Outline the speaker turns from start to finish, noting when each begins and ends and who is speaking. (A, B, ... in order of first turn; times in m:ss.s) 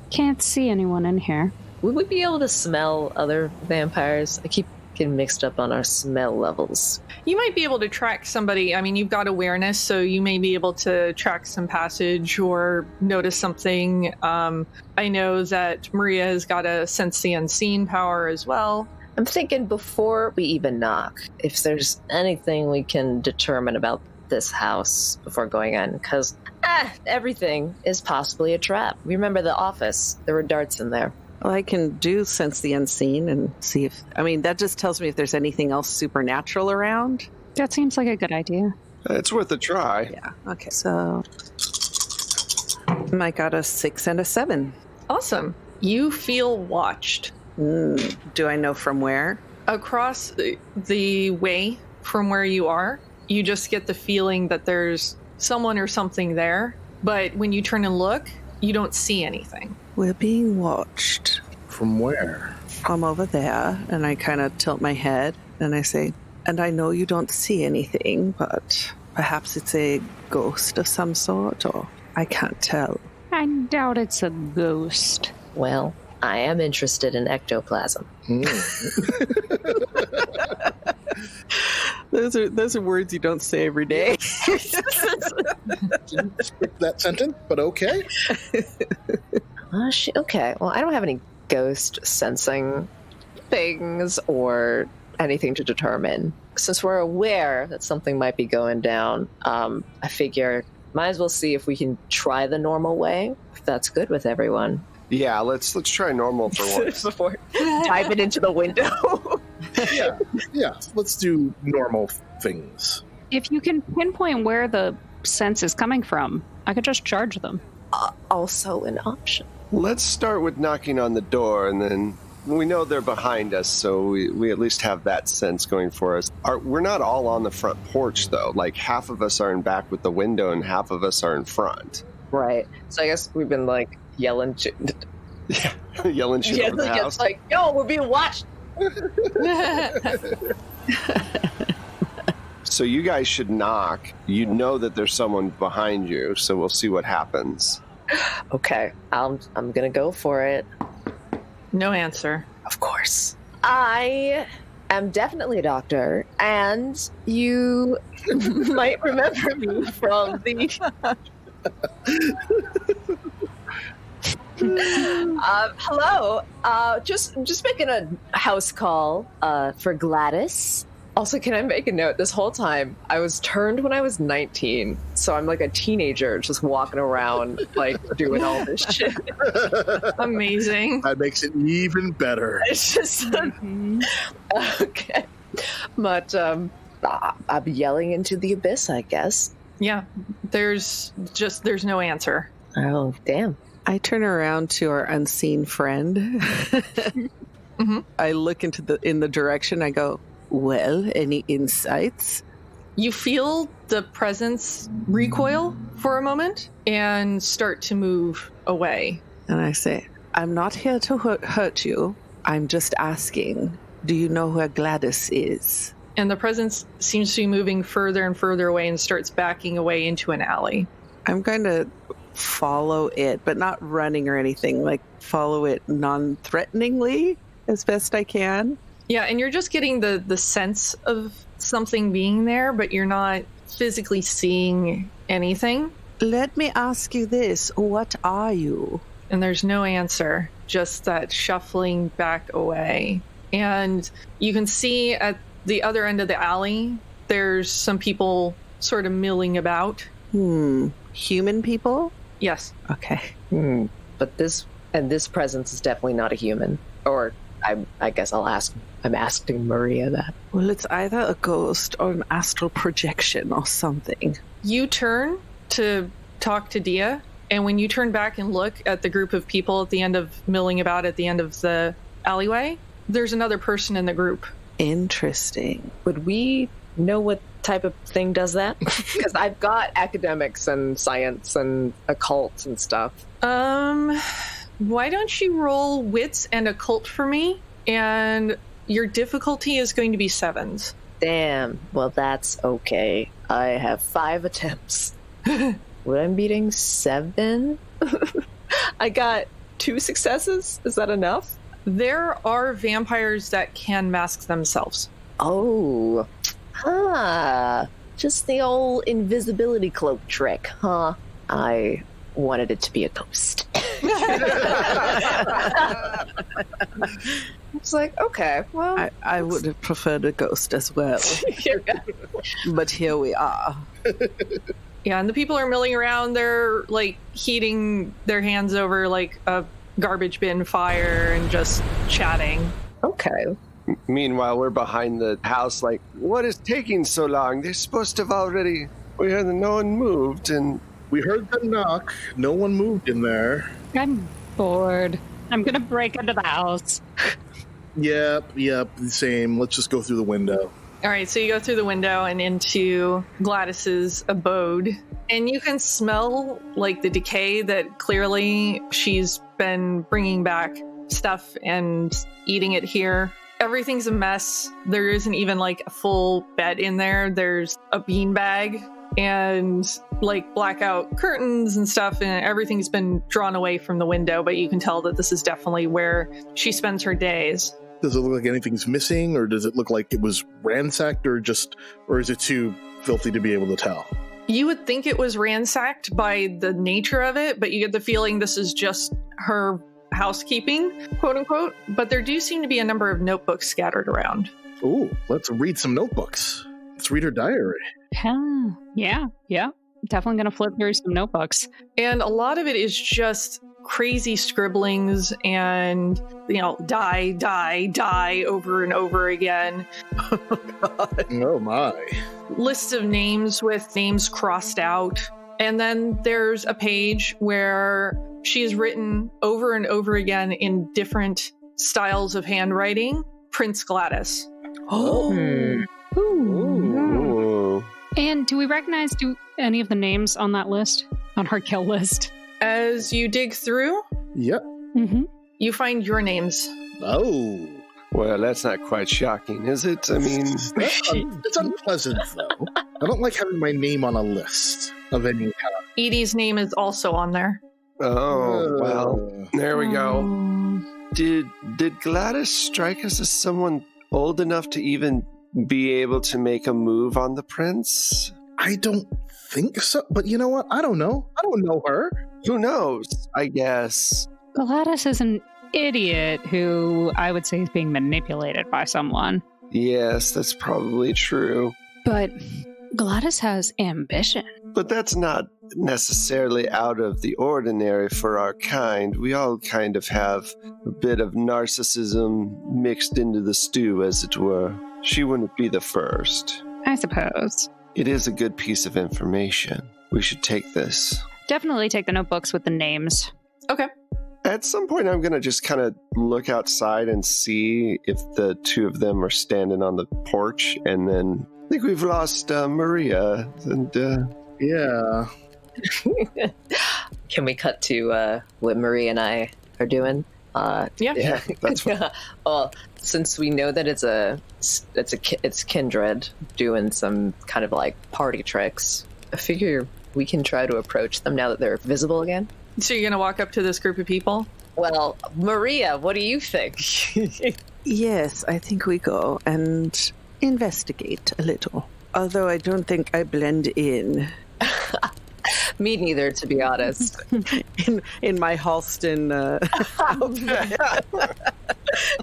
0:00.1-0:01.5 A
0:01.8-0:07.0 B
0:07.2-0:18.9 C
0:19.2-0:31.2 B
0:31.4-0:37.3 D
0:37.6-0:38.7 A
0:39.0-0:40.1 E
0:40.1-0:41.2 D
0:42.9-0:44.8 D
0:45.1-0:47.3 C
0:47.6-0:49.4 D
0:49.7-0:59.8 C
1:00.0-1:01.4 D
1:01.7-1:02.5 F
1:02.8-1:13.0 D
1:13.3-1:15.3 A
1:15.5-1:18.1 B
1:18.3-1:20.4 F
1:21.6-1:25.1 D
1:26.1-1:28.1 F
1:28.3-1:29.2 D
1:29.7-1:32.9 B
1:33.5-1:44.8 B
1:45.1-1:47.0 E
1:46.5-1:50.1 B
1:49.8-1:53.0 F
1:53.3-1:57.6 A
1:57.9-1:59.5 B
1:59.7-2:12.0 E
2:12.3-2:15.0 B
2:15.5-2:17.2 E
2:16.4-2:18.5 B
2:19.4-2:20.2 C
2:20.9-2:21.7 D
2:22.6-2:27.8 E
2:28.5-2:30.6 B
2:31.7-2:32.5 C
2:32.6-2:40.8 B
2:44.6-2:59.7 B
2:58.3-2:58.6 C
2:59.4-3:00.1 F
3:00.2-3:01.1 C
3:01.0-3:02.7 F
3:02.6-3:03.6 B
3:03.3-3:04.1 A
3:04.5-3:09.5 B
3:09.8-3:12.5 C
3:12.7-3:13.6 B
3:13.8-3:17.2 D
3:17.8-3:18.0 C
3:18.2-3:22.4 D
3:23.0-3:29.2 C
3:29.5-3:35.9 D
3:36.2-3:40.9 C
3:41.2-3:48.8 D
3:49.1-3:56.0 C
3:56.2-3:59.0 D
3:59.3-4:10.1 C
4:10.3-4:12.1 D
4:12.4-4:12.7 C
4:12.9-4:13.3 D
4:13.5-4:20.3 B
4:20.5-4:24.4 D
4:24.6-4:34.5 C
4:34.8-4:35.9 D
4:36.0-4:43.2 B
4:43.4-4:44.2 C
4:44.8-4:50.9 C
4:51.2-4:55.1 B
4:55.5-4:55.8 C
4:56.0-4:58.4 B
4:59.0-5:01.6 B
5:01.8-5:05.1 C
5:05.4-5:06.3 B
5:06.8-5:16.2 B
5:14.1-5:14.8 C
5:17.8-5:19.6 B
5:19.0-5:21.4 D
5:21.2-5:22.0 B
5:22.6-5:23.9 D
5:25.0-5:32.7 C
5:33.0-5:33.5 B
5:33.9-5:40.8 E
5:41.1-5:43.7 F
5:43.9-5:47.0 A
5:48.0-5:50.7 F
5:51.0-6:17.8 C
6:18.0-6:24.1 F
6:24.5-6:34.5 C
6:34.8-6:37.8 F
6:38.2-6:41.7 A
6:42.0-6:49.9 C
6:50.3-6:51.3 D
6:51.3-6:52.2 F
6:52.5-7:04.5 C
7:05.0-7:05.4 F
7:05.3-7:05.8 B
7:06.4-7:06.9 F
7:06.4-7:07.4 A
7:06.9-7:07.9 E
7:08.2-7:12.3 A
7:12.6-7:14.0 C
7:14.3-7:14.6 F
7:14.9-7:15.3 A
7:15.6-7:16.7 C
7:17.0-7:17.8 F
7:18.1-7:20.8 E
7:20.2-7:25.8 F
7:26.0-7:27.6 C
7:28.0-7:30.3 E
7:28.3-7:29.5 F
7:29.7-7:30.8 A
7:31.1-7:38.3 E
7:38.6-7:42.2 F
7:42.4-7:44.3 E
7:44.5-7:49.4 A
7:49.7-7:51.8 E
7:52.0-7:52.4 A
7:52.9-7:54.5 A
7:54.7-8:06.6 E
8:06.8-8:07.7 A
8:07.9-8:11.3 E
8:11.5-8:13.3 A
8:14.4-8:24.3 E
8:24.6-8:25.3 F
8:25.8-8:42.5 B
8:31.2-8:31.9 E
8:42.8-8:44.5 C
8:44.8-8:47.6 B
8:47.8-8:54.3 D
8:54.6-8:57.4 B
8:57.4-9:01.0 D
9:00.5-9:01.0 E